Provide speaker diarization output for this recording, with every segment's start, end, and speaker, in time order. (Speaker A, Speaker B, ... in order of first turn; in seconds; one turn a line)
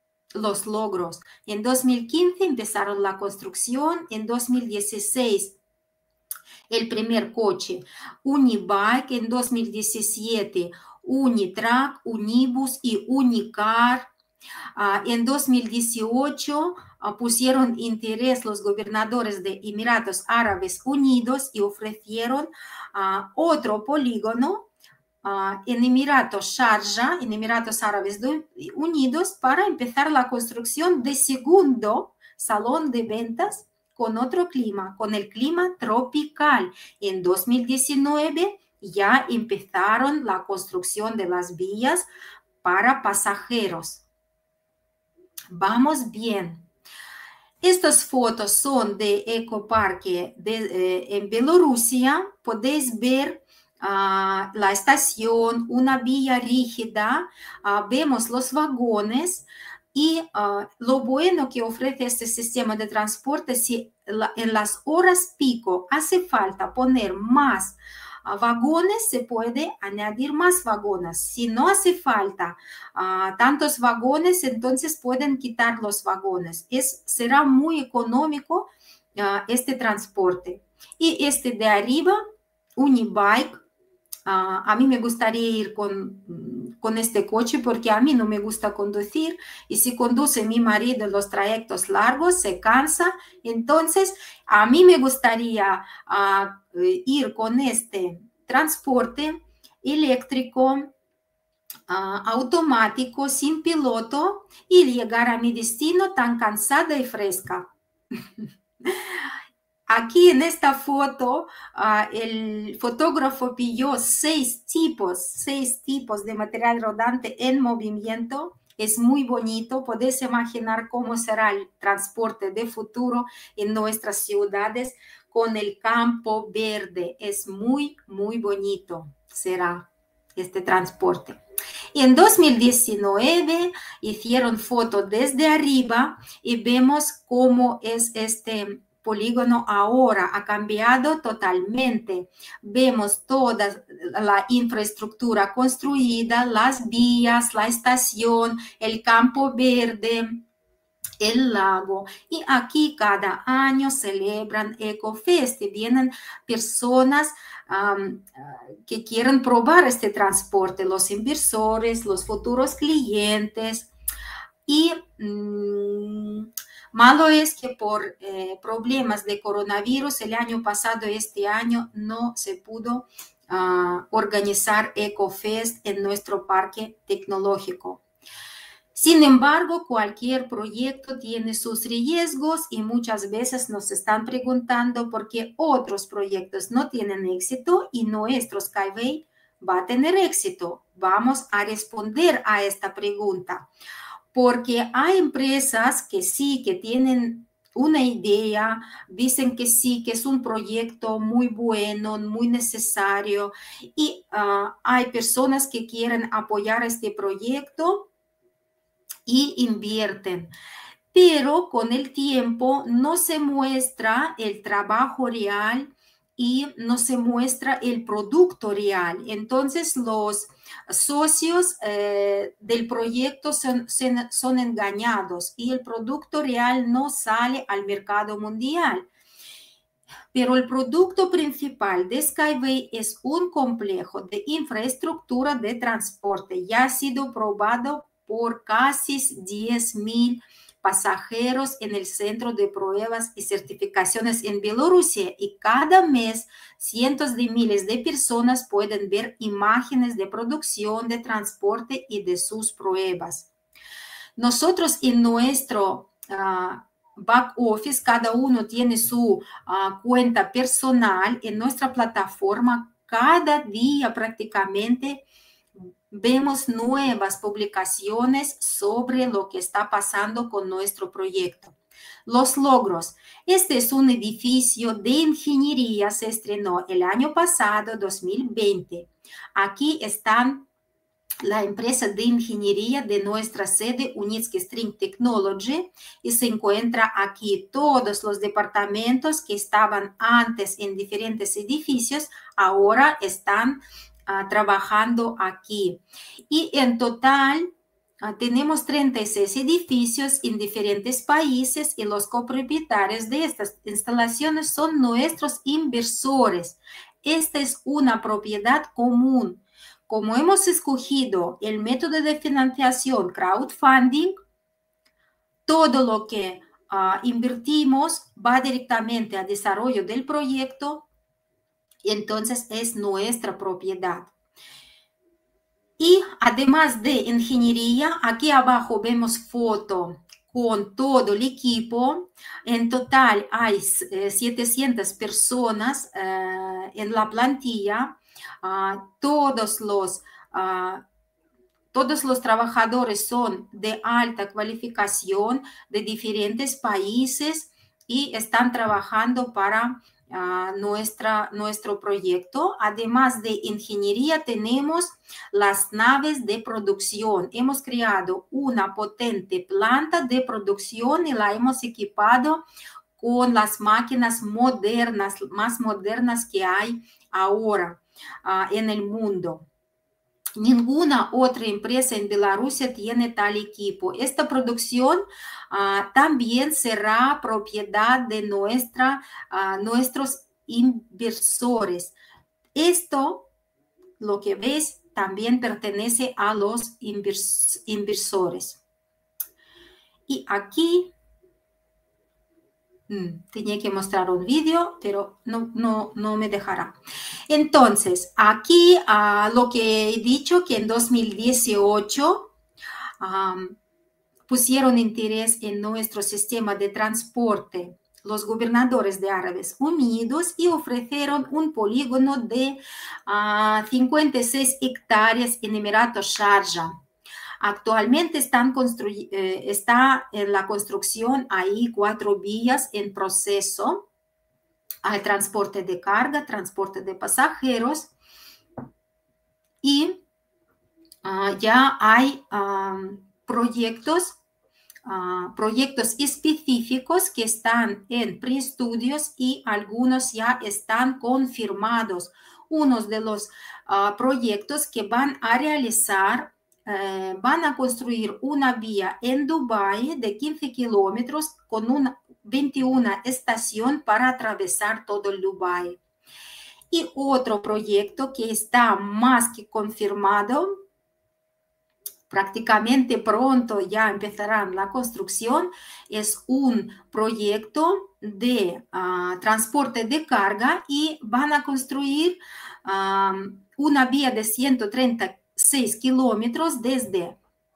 Speaker A: 0.3-5.6
Speaker A: 6.7-14.1
Speaker A: 14.8-24.6
Speaker A: 25.2-42.0
Speaker A: 42.6-44.0
Speaker A: 45.5-46.6
Speaker A: 47.6-82.2
Speaker A: 82.8-83.6
Speaker A: 84.2-100.9
Speaker A: 101.9-107.7
Speaker A: 108.8-109.2
Speaker A: 109.9-131.4
Speaker A: 131.9-150.4
Speaker A: 151.2-163.9
Speaker A: 164.7-178.0
Speaker A: 178.9-193.7
Speaker A: 194.3-208.1
Speaker A: 209.2-210.5
Speaker A: 211.1-229.1
Speaker A: 230.3-253.5
Speaker A: 254.4-265.2
Speaker A: 265.8-271.7
Speaker A: 272.2-280.6
Speaker A: 281.4-297.7
Speaker A: 298.2-314.3
Speaker A: 315.6-321.1
Speaker A: 322.0-324.3
Speaker A: 326.0-341.0
Speaker A: 341.9-362.6
Speaker A: 363.2-369.6
Speaker A: 370.6-382.1
Speaker A: 382.7-383.5
Speaker A: 384.2-388.8
Speaker A: 390.3-391.1
Speaker A: 393.1-396.9
Speaker A: 397.5-402.5
Speaker A: 403.2-403.8
Speaker A: 404.5-416.9
Speaker A: 417.6-424.0
Speaker A: 425.0-428.1
Speaker A: 429.8-430.2
Speaker A: 431.2-434.4
Speaker A: 435.0-456.0
Speaker A: 456.9-460.7
Speaker A: 462.3-477.4